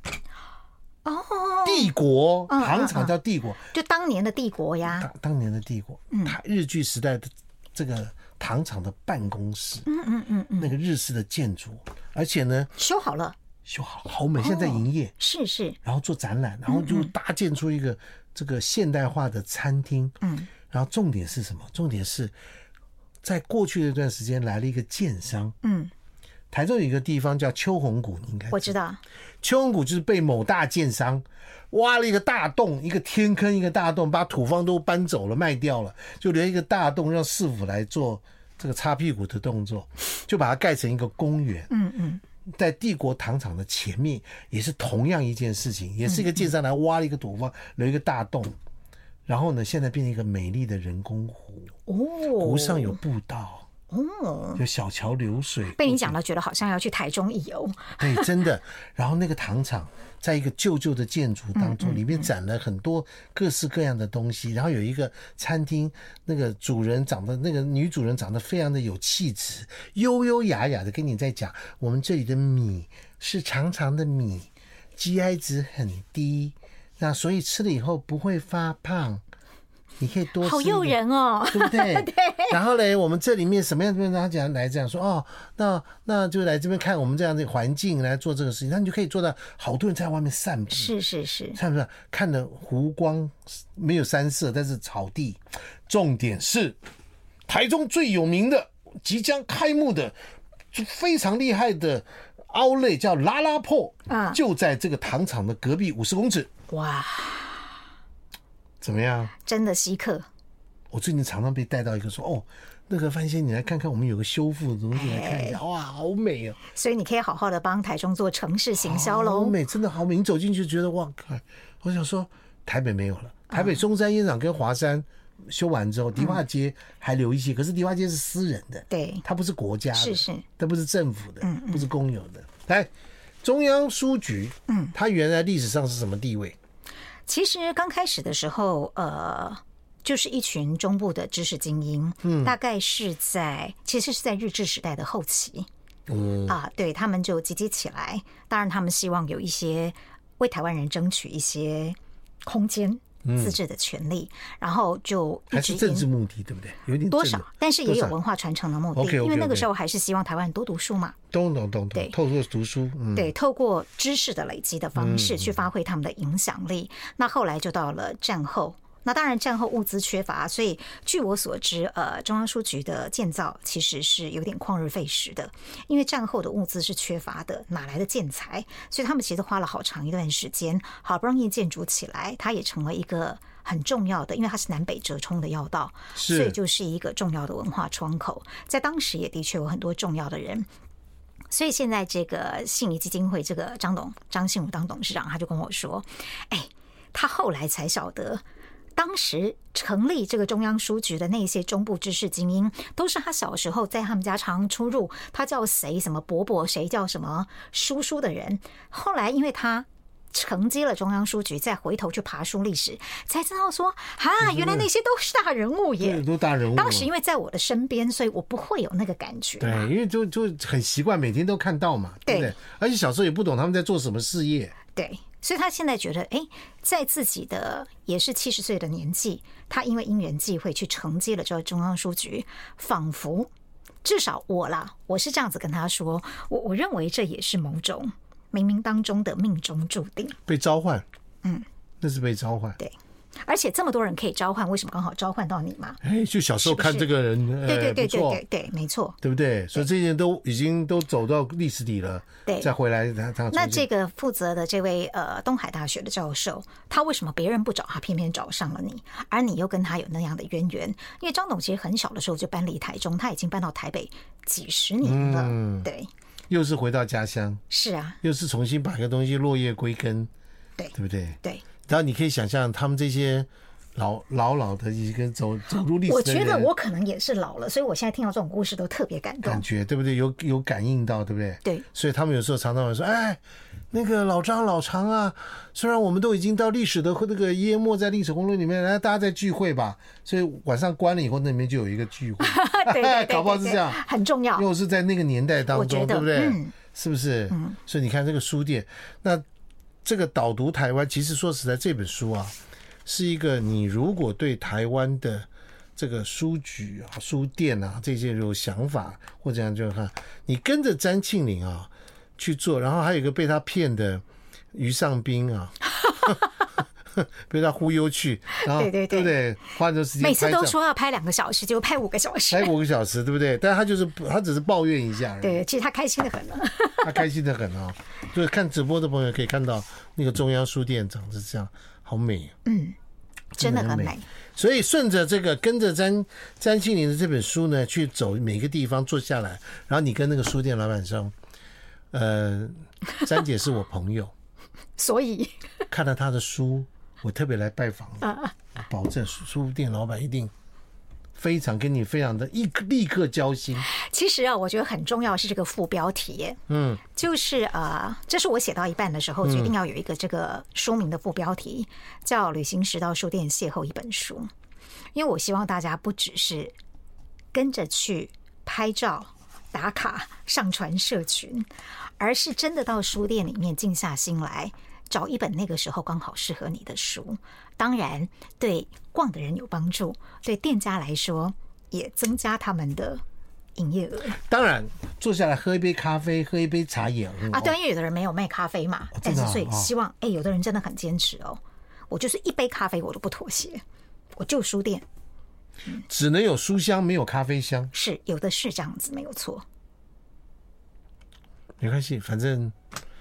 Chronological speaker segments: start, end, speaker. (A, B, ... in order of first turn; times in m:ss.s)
0:01.0-0:01.9 A
0:01.6-0:03.6 B
0:02.5-0:03.1 A
0:03.6-0:05.1 A
0:04.9-0:09.8 B
0:06.1-0:06.4 A
0:09.8-0:10.7 A
0:10.6-0:12.7 B
0:12.8-0:13.4 A
0:13.6-0:15.1 B
0:14.4-0:15.8 A
0:15.8-0:20.2 B
0:16.7-0:17.1 A
0:20.2-0:20.5 A
0:20.7-0:22.3 B
0:23.2-0:25.6 B
0:25.6-0:25.9 A
0:26.5-0:28.7 B
0:28.5-0:29.0 A
0:29.4-0:41.7 B
0:41.7-0:42.2 A
0:42.5-0:48.6 B
0:46.0-0:46.5 A
0:49.3-0:51.7 B
0:51.9-0:53.0 A
0:52.4-0:53.7 B
0:53.9-0:54.6 A
0:54.6-0:56.2 B
0:55.8-0:58.3 A
0:58.0-1:19.2 B
1:01.6-1:02.3 A
1:20.0-1:21.0 B
1:20.4-1:22.6 A
1:21.5-1:30.9 B
1:30.7-1:31.6 A
1:31.5-1:36.8 B
1:37.5-1:40.2 B
1:40.7-1:46.5 B
1:44.1-1:44.4 A
1:46.7-1:47.7 A
1:48.8-1:49.3 B
1:49.4-1:50.2 A
1:50.9-1:56.6 B
1:54.9-1:55.6 A
1:56.7-1:59.6 A
1:58.8-2:12.9 B
2:03.5-2:03.8 A
2:06.2-2:06.4 A
2:08.9-2:09.2 A
2:09.9-2:10.4 A
2:11.4-2:11.9 A
2:13.4-2:16.6 B
2:14.7-2:14.9 A
2:17.3-2:25.7 A
2:22.2-2:22.5 B
2:26.1-2:26.6 B
2:26.5-2:36.1 A
2:33.2-2:33.6 B
2:35.5-2:38.2 B
2:37.1-2:41.2 A
2:38.9-2:39.7 B
2:41.3-2:43.3 B
2:43.1-3:10.7 A
2:45.0-2:45.6 B
3:06.1-3:06.6 B
3:11.5-3:18.4 A
3:19.0-3:39.9 A
3:34.4-3:34.8 B
3:36.0-3:37.1 B
3:39.6-3:44.7 B
3:42.2-3:42.5 A
3:44.9-3:53.5 A
3:54.0-4:00.4 A
4:00.5-4:01.0 B
4:02.0-4:02.8 B
4:02.8-4:06.0 A
4:06.0-4:08.4 B
4:06.6-4:07.1 A
4:07.6-4:09.2 A
4:09.2-4:13.8 B
4:13.5-4:26.1 A
4:25.0-4:25.9 B
4:26.5-4:27.6 B
4:27.7-4:28.2 A
4:28.2-4:30.3 B
4:30.8-4:31.6 A
4:30.9-4:36.7 B
4:36.0-4:39.6 A
4:39.4-4:43.4 B
4:43.9-4:54.0 B
4:52.4-4:54.6 A
4:54.6-4:59.4 B
4:55.7-4:56.7 A
4:57.5-4:57.8 A
5:00.0-5:02.5 B
5:03.0-5:16.4 B
5:17.2-5:20.7 B
5:18.6-5:19.3 A
5:20.2-5:22.7 A
5:22.5-5:25.6 B
5:25.4-5:27.2 A
5:27.0-5:32.5 B
5:32.6-5:33.0 A
5:33.6-5:41.3 B
5:33.6-5:34.2 A
5:42.1-5:44.3 B
5:45.0-5:45.6 A
5:45.9-5:50.5 B
5:48.2-5:48.5 A
5:51.4-5:53.8 B
5:53.8-6:04.5 A
5:56.7-5:57.0 B
5:59.4-5:59.7 B
6:05.1-6:06.8 A
6:07.5-6:23.2 A
6:23.8-6:24.4 A
6:24.3-6:27.7 B
6:27.5-6:33.8 A
6:29.1-6:29.9 B
6:34.3-6:35.0 A
6:36.0-6:37.9 B
6:37.9-6:39.6 A
6:41.8-6:42.7 B